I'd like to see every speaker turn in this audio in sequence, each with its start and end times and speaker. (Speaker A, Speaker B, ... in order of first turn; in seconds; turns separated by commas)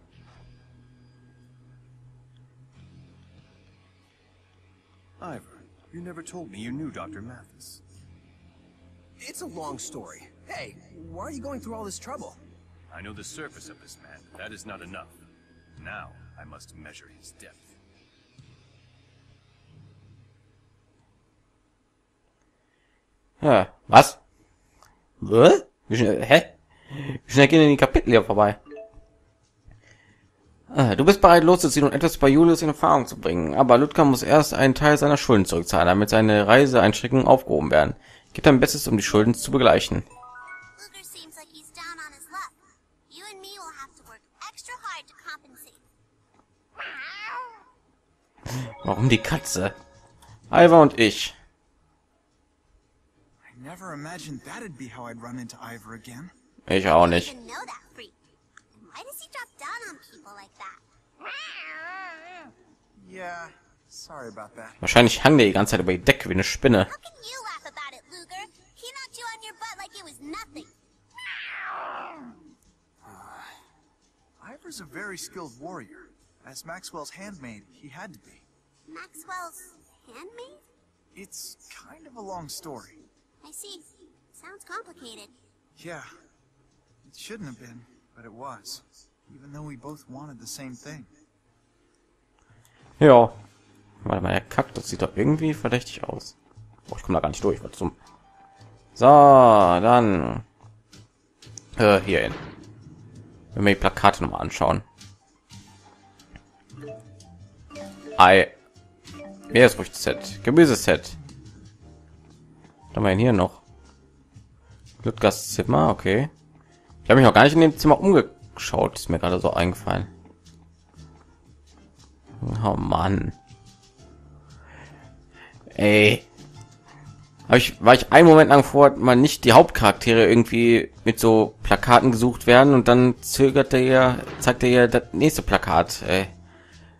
Speaker A: 5.2-7.8, Speaker B: 9.2-12.4, Speaker A: 12.9-15.1, Speaker A: 15.8-17.8, Speaker C: 23.4-24.2, Speaker C: 25.2-28.6, Speaker C: 30.7-40.0, Speaker D: 40.8-42.6, Speaker D: 43.1-45.8, Speaker C: 48.5-49.8, Speaker C: 50.5-51.4, Speaker E: 53.4-56.3, Speaker C: 56.7-57.3, Speaker D: 57.0-57.9, Speaker D: 58.8-60.8, Speaker E: 63.0-64.8, Speaker C: 64.8-66.9, Speaker D: 66.8-70.7, Speaker E: 74.4-78.5, Speaker D: 78.9-80.6, Speaker E: 81.1-83.0, Speaker D: 83.4-85.3, Speaker E: 85.8-86.1, Speaker E: 87.0-91.1, Speaker C: 93.0-93.4, Speaker C: 94.0-96.3, Speaker C: 96.9-98.0, Speaker C: 99.0-100.4, Speaker C: 101.8-102.4, Speaker C: 103.5-104.8, Speaker C: 108.2-108.5, Speaker C: 109.5-111.2, Speaker C: 112.9-113.6, Speaker C: 115.0-116.3, Speaker C: 117.0-120.1, Speaker C: 122.4-123.3, Speaker C: 125.7-126.2, Speaker C: 127.5-136.3